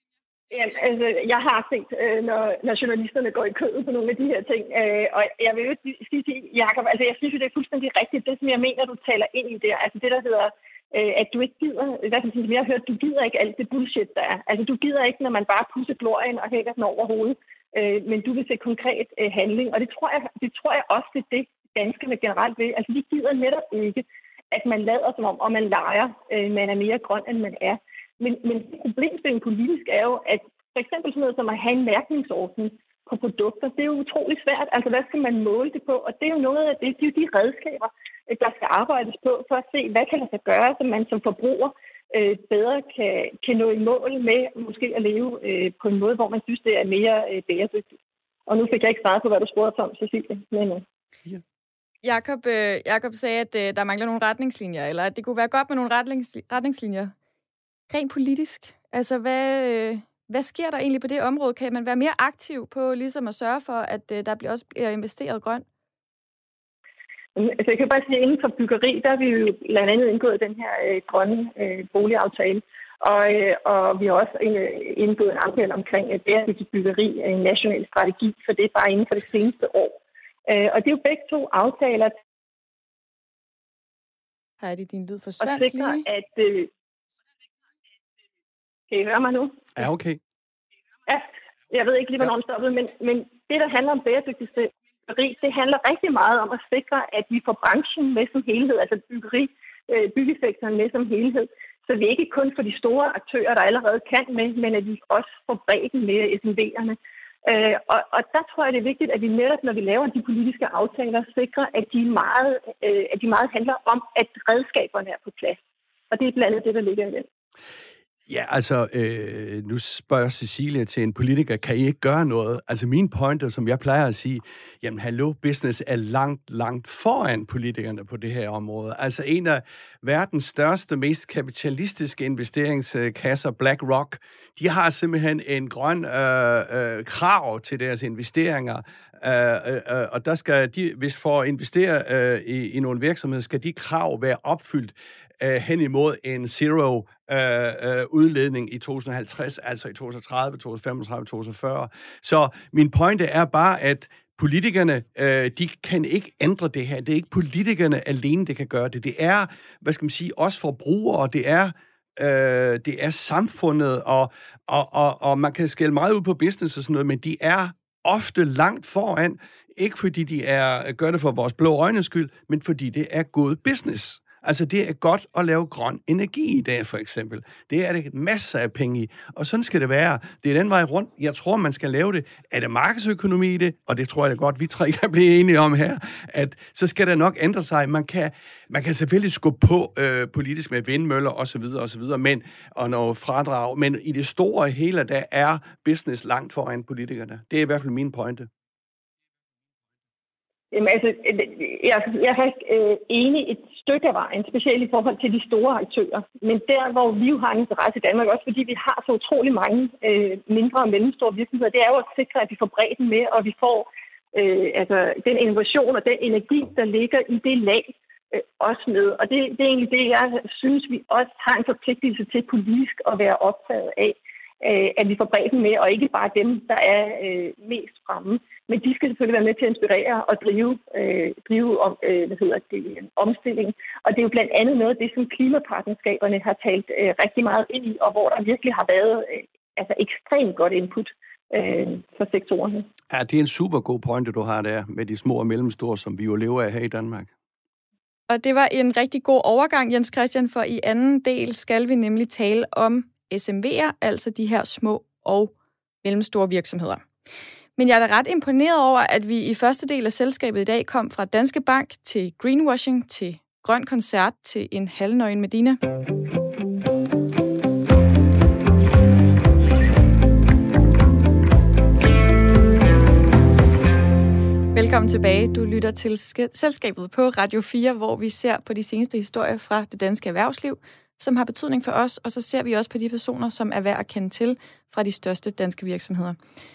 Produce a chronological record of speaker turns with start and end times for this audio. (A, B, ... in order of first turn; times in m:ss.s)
0:00.5-0:47.9 A
0:48.5-0:50.8 A
0:52.0-0:57.1 B
0:57.9-1:05.6 B
1:07.4-1:22.1 A
1:24.6-1:26.0 B
1:25.4-1:26.7 A
1:28.9-1:29.7 A
1:29.8-1:30.2 C
1:31.1-1:55.6 A
1:56.1-1:57.2 A
1:58.3-3:18.5 C
3:20.7-4:02.9 A
4:03.1-4:07.3 C
4:08.3-4:15.5 B
4:16.0-4:17.0 B
4:17.8-4:25.8 B
4:34.7-4:46.4 B